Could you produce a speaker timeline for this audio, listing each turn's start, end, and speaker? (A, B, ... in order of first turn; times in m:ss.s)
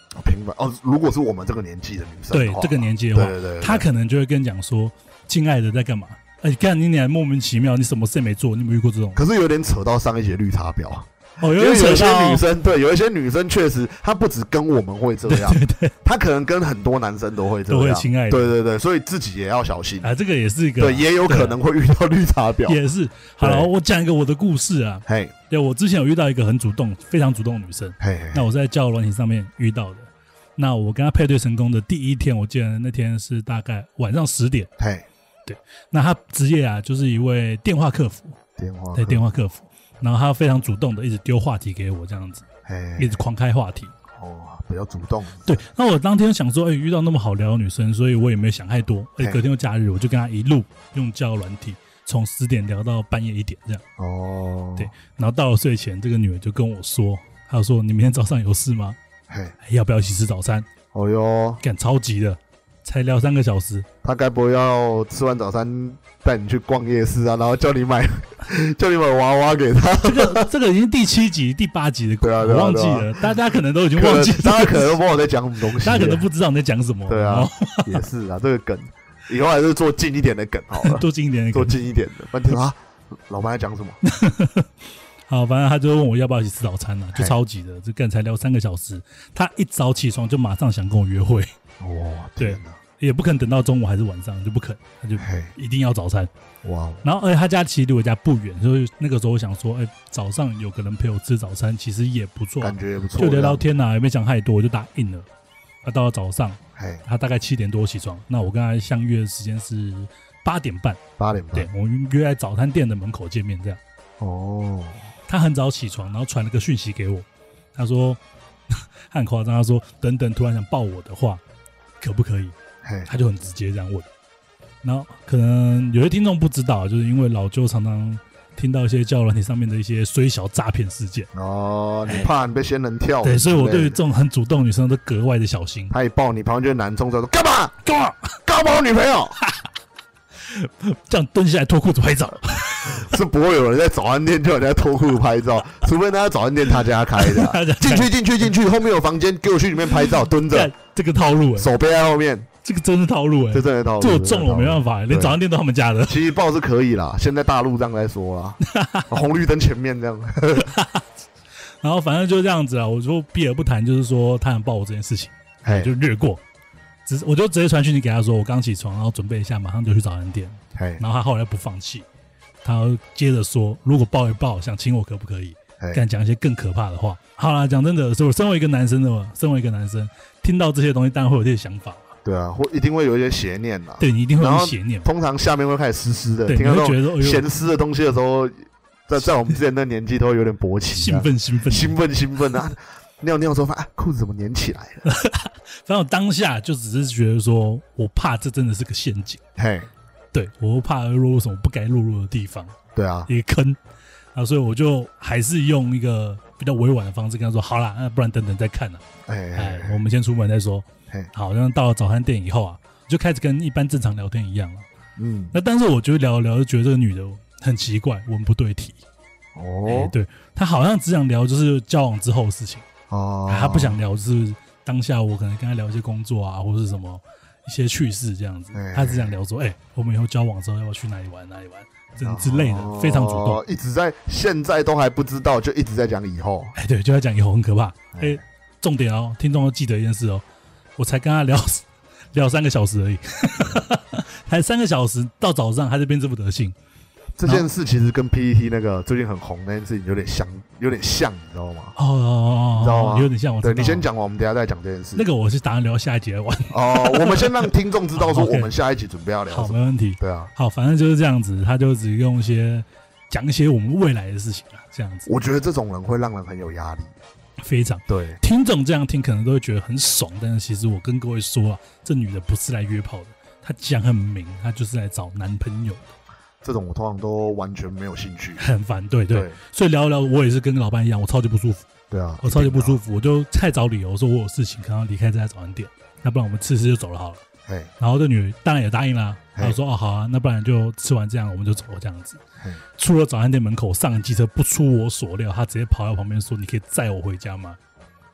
0:00.2-0:03.8 A
0:02.3-0:09.2 B
0:09.1-0:20.1 A
0:11.4-0:12.4 B
0:15.3-0:15.9 B
0:17.7-0:18.5 B
0:20.0-0:21.6 B
0:20.8-0:22.8 A
0:22.6-0:34.7 B
0:23.4-0:23.7 A
0:25.1-0:25.3 A
0:28.0-0:28.5 A
0:34.8-0:35.0 A
0:35.5-0:38.4 B
0:38.6-0:39.2 A
0:38.9-0:42.4 B
0:42.6-0:43.2 A
0:43.0-0:43.9 B
0:44.1-0:45.5 A
0:45.4-0:53.8 B
0:54.0-0:54.9 A
0:54.8-0:59.0 B
0:59.3-0:59.5 A
0:59.6-1:00.7 B
1:00.9-1:01.6 A
1:01.6-1:03.8 B
1:04.0-1:10.5 A
1:10.0-1:15.0 B
1:12.2-1:13.4 A
1:13.9-1:16.2 A
1:15.8-1:18.0 B
1:17.1-1:24.0 A
1:20.8-1:21.8 B
1:24.0-1:24.7 B
1:25.3-1:31.5 B
1:31.8-1:32.8 A
1:32.4-1:36.3 B
1:35.2-1:35.5 A
1:36.6-1:37.0 A
1:37.0-1:45.3 B
1:42.6-1:43.6 A
1:45.8-1:51.0 B
1:46.8-1:47.0 A
1:51.2-1:51.7 A
1:51.5-1:53.8 B
1:54.2-1:55.0 A
1:55.3-1:58.2 B
1:58.7-2:01.4 B
2:02.0-2:02.5 B
2:02.8-2:03.1 A
2:03.0-2:04.0 B
2:04.8-2:11.3 B
2:11.3-2:14.0 A
2:13.2-2:15.9 B
2:15.9-2:17.8 A
2:17.8-2:18.3 B
2:18.4-2:19.4 A
2:20.4-2:23.1 B
2:22.8-2:30.7 A
2:27.2-2:28.1 B
2:30.0-2:31.7 B
2:31.6-2:32.5 A
2:32.6-2:36.2 B
2:33.5-2:35.4 A
2:36.0-2:40.7 A
2:38.6-2:39.1 B
2:40.6-2:41.0 B
2:41.8-2:46.4 B
2:45.6-2:45.9 A
2:47.0-2:52.0 B
2:50.8-2:51.0 A
2:52.6-3:02.1 B
3:02.2-3:15.0 A
3:04.0-3:05.1 B
3:06.5-3:07.4 B
3:10.9-3:12.0 B
3:15.0-3:19.4 B
3:19.6-3:19.9 A
3:20.3-3:22.7 B
3:22.9-3:23.3 A
3:23.3-3:23.8 B
3:24.3-3:29.0 B
3:29.3-3:30.0 A
3:29.5-3:34.8 B
3:35.2-3:35.5 A
3:35.5-3:39.0 B
3:39.5-3:40.1 A
3:39.8-3:42.8 B
3:43.1-3:44.0 A
3:43.5-3:53.6 B
3:48.7-3:49.3 A
3:52.2-3:56.7 A
3:56.8-4:00.4 B
3:58.1-3:58.4 A
4:01.0-4:06.8 B
4:07.4-4:11.9 A
4:12.0-4:14.0 B
4:12.8-4:15.2 A
4:15.2-4:18.7 B
4:16.7-4:20.5 A
4:19.5-4:25.3 B
4:25.3-4:27.1 A
4:27.6-4:36.1 B
4:28.1-4:28.4 A
4:36.6-4:38.6 A
4:38.6-4:41.8 B
4:42.1-4:43.0 A
4:42.4-4:47.4 B
4:47.6-4:47.9 A
4:48.0-4:52.4 B
4:53.0-4:57.8 B